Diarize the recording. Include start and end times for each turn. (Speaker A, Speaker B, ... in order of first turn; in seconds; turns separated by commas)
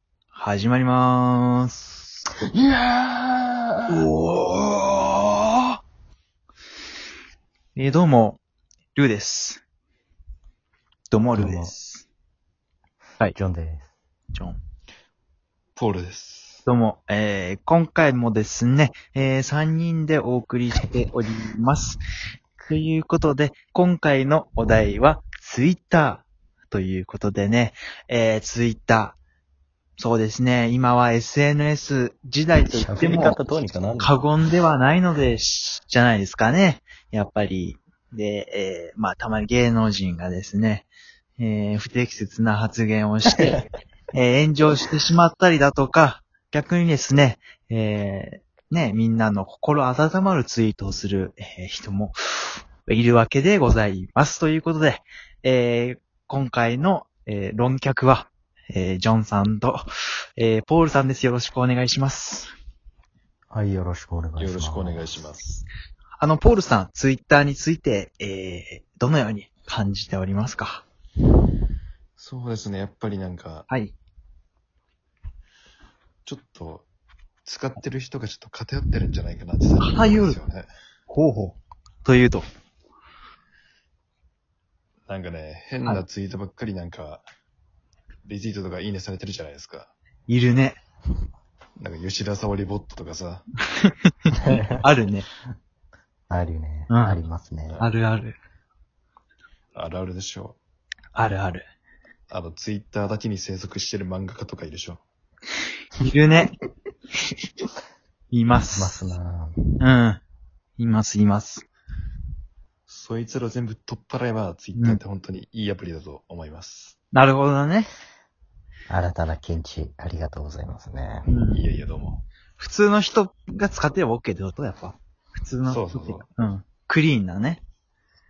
Speaker A: 0.3-2.2, Speaker B: 2.5-4.1, Speaker A: 3.9-4.3, Speaker A: 7.8-8.4, Speaker A: 8.9-9.6, Speaker A: 11.1-12.1, Speaker B: 11.3-11.7, Speaker B: 13.3-13.9, Speaker C: 15.8-16.6, Speaker A: 16.7-22.0, Speaker A: 22.6-29.2, Speaker A: 30.0-33.4, Speaker B: 32.7-34.2, Speaker A: 34.0-40.9, Speaker A: 41.4-43.6, Speaker A: 44.1-59.9, Speaker A: 60.4-62.5, Speaker B: 63.5-65.3, Speaker C: 64.4-65.6, Speaker A: 66.2-70.8, Speaker C: 72.2-73.7, Speaker A: 73.7-74.0, Speaker C: 76.3-76.9, Speaker C: 77.5-80.7, Speaker A: 79.8-80.4, Speaker A: 81.1-82.5, Speaker C: 85.1-87.2, Speaker C: 88.2-89.9, Speaker A: 90.3-90.8, Speaker C: 91.8-93.5, Speaker A: 93.8-95.3, Speaker B: 94.5-94.8, Speaker B: 96.3-97.9, Speaker A: 96.9-97.2, Speaker A: 97.8-98.4, Speaker C: 99.8-100.6, Speaker A: 101.2-101.7, Speaker C: 102.3-105.0, Speaker A: 106.0-106.5, Speaker A: 108.3-109.0, Speaker B: 108.7-109.6, Speaker A: 109.8-110.2, Speaker A: 110.8-111.7, Speaker C: 112.9-117.0, Speaker A: 117.1-117.9, Speaker B: 118.9-121.3, Speaker A: 121.3-121.6, Speaker C: 121.5-122.2, Speaker A: 122.6-127.6, Speaker C: 125.7-126.3